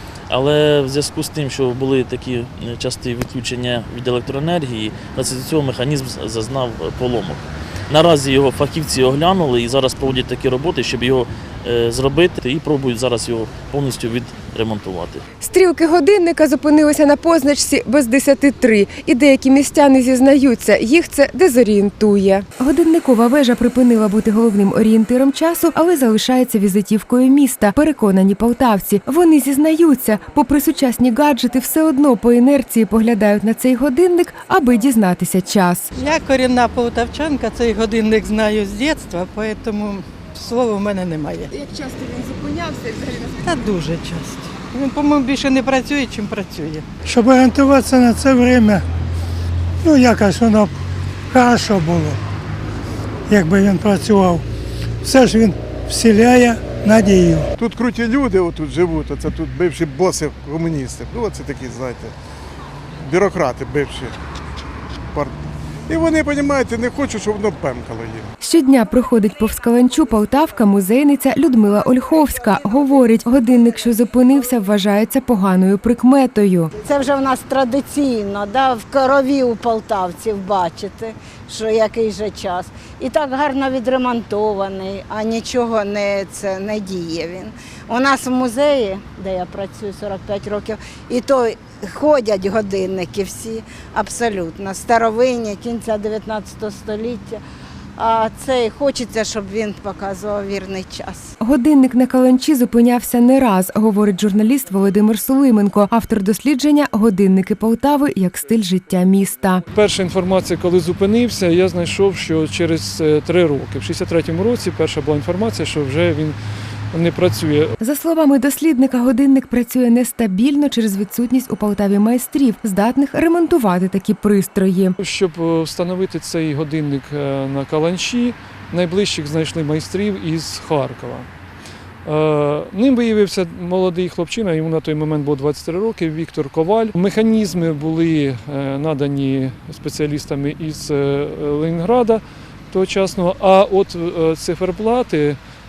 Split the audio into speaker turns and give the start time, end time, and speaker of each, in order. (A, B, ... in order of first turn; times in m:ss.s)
0:00.3-0:15.2 A
0:15.4-0:35.9 B
0:35.9-0:41.5 C
0:41.5-0:43.3 B
0:43.4-0:46.9 C
0:47.0-0:48.8 D
0:49.8-0:50.7 D
0:51.3-0:52.2 D
0:53.3-0:54.4 D
0:55.0-0:57.5 D
0:57.6-1:02.1 E
1:03.0-1:04.2 E
1:05.9-1:08.3 E
1:08.4-1:16.7 B
1:16.8-1:37.4 F
1:38.0-1:41.3 F
1:41.4-1:49.6 B
1:49.7-1:56.4 G
1:56.9-1:57.8 G
1:57.8-2:05.0 B
2:05.0-2:11.3 G
2:12.0-2:25.4 G